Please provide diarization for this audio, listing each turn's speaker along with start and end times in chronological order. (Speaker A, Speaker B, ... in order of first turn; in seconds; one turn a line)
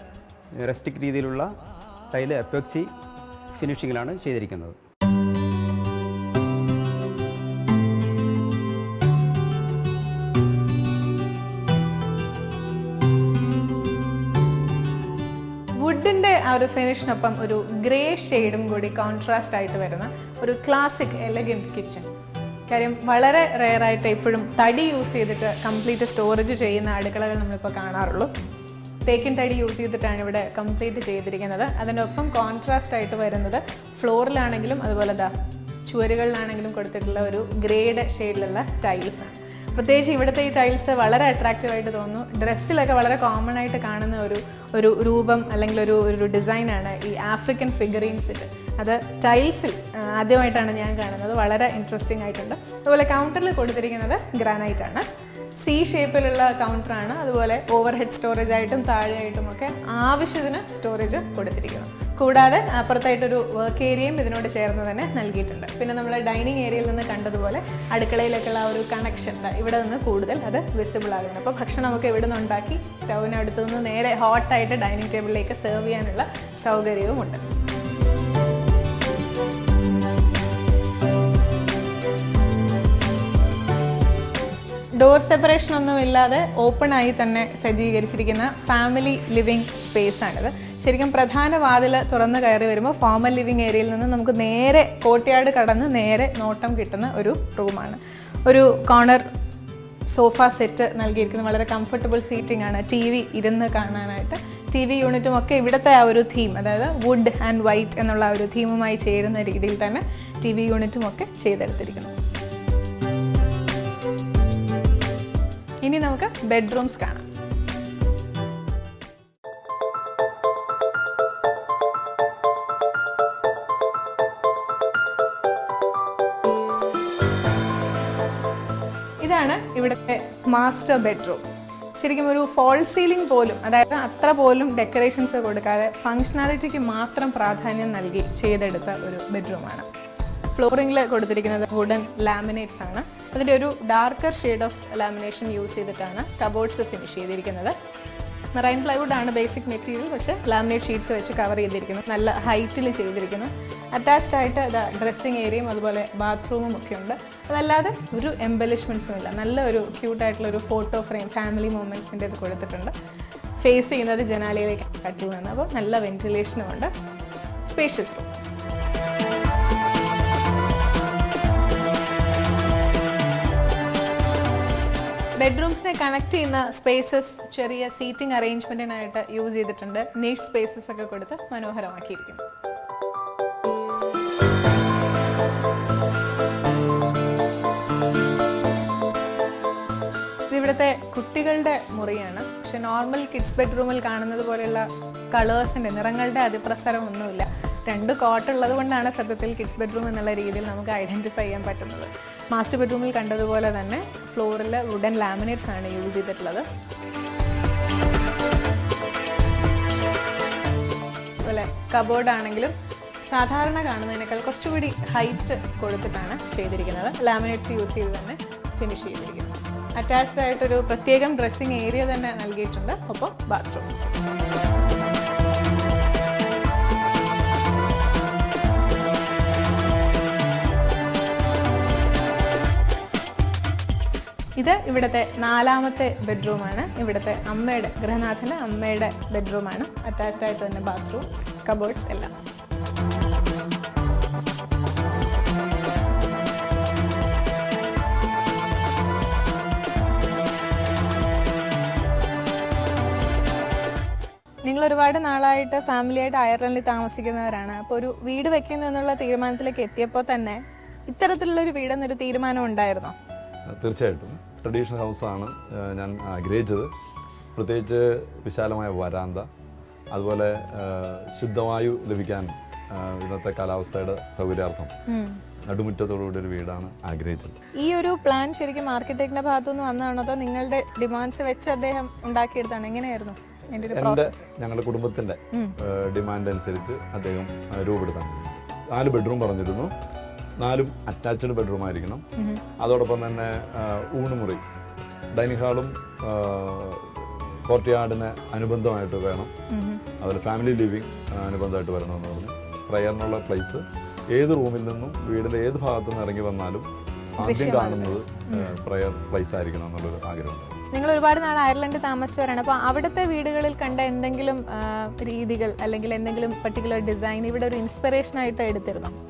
Speaker A: 0.6-1.5
Speaker A: 2.1-2.9
Speaker A: 3.5-4.8
Speaker B: 15.8-22.1
Speaker B: 22.7-28.3
Speaker B: 29.0-35.3
Speaker B: 35.9-55.1
Speaker B: 55.6-77.4
Speaker B: 85.0-99.3
Speaker B: 100.1-112.2
Speaker B: 115.8-117.3
Speaker B: 129.2-139.9
Speaker B: 140.6-147.8
Speaker B: 148.5-162.9
Speaker B: 163.6-166.9
Speaker B: 167.6-168.3
Speaker B: 175.4-182.4
Speaker B: 190.5-206.7
Speaker B: 211.4-212.8
Speaker B: 213.3-224.2
Speaker B: 234.6-242.3
Speaker B: 254.6-263.1
Speaker C: 263.7-266.9
Speaker C: 267.6-269.5
Speaker C: 270.1-274.9
Speaker B: 275.1-275.4
Speaker C: 275.7-277.6
Speaker B: 277.8-284.5
Speaker C: 283.9-289.9
Speaker C: 290.6-292.2
Speaker B: 292.4-292.6
Speaker C: 292.8-294.6
Speaker C: 295.3-299.5
Speaker B: 299.7-300.0
Speaker C: 300.2-310.8
Speaker B: 307.4-308.8
Speaker B: 310.9-319.1